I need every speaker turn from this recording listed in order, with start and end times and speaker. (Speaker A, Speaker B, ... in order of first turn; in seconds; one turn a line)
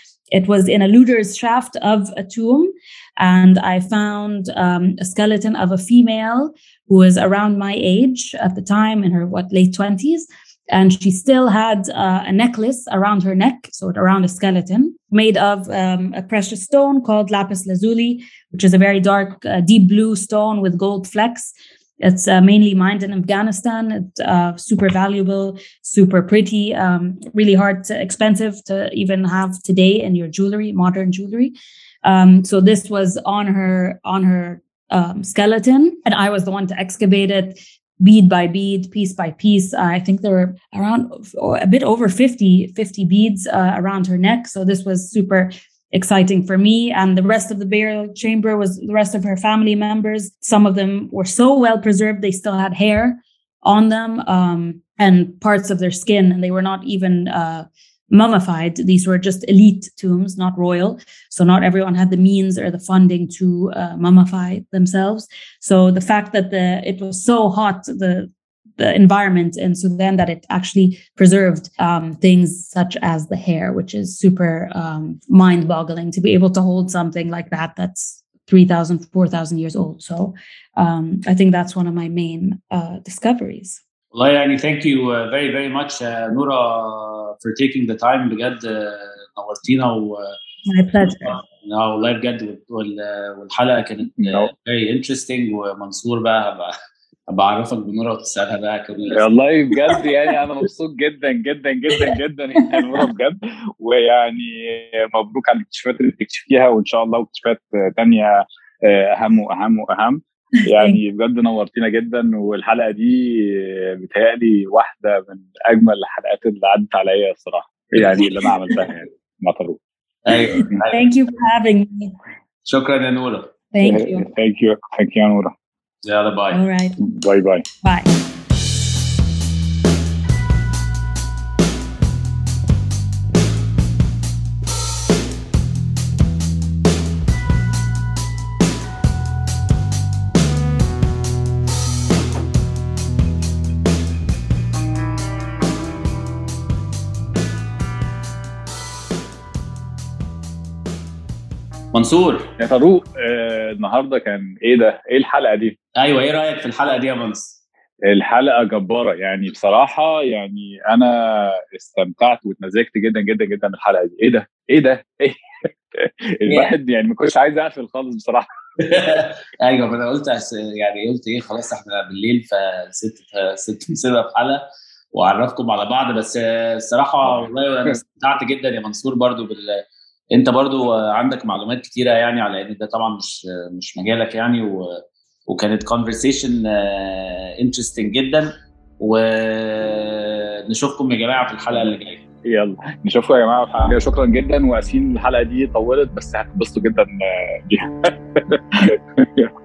Speaker A: 0.3-83.8
Speaker B: 84.1-90.3
Speaker A: 90.7-91.4
Speaker B: 91.2-96.7
Speaker C: 94.2-94.5
Speaker B: 97.3-99.2
Speaker C: 99.1-119.8
Speaker A: 110.5-111.0
Speaker B: 120.2-121.0
Speaker A: 120.6-122.1
Speaker B: 122.7-123.5
Speaker A: 123.7-124.3
Speaker C: 123.8-125.5
Speaker B: 126.0-126.6
Speaker A: 126.5-127.0
Speaker C: 127.0-127.6
Speaker A: 127.8-128.1
Speaker B: 151.9-152.5
Speaker C: 152.6-155.8
Speaker B: 156.0-157.6
Speaker C: 158.0-165.4
Speaker C: 165.9-168.5
Speaker B: 166.5-166.7
Speaker B: 168.8-179.8
Speaker B: 180.3-192.2
Speaker C: 192.4-199.5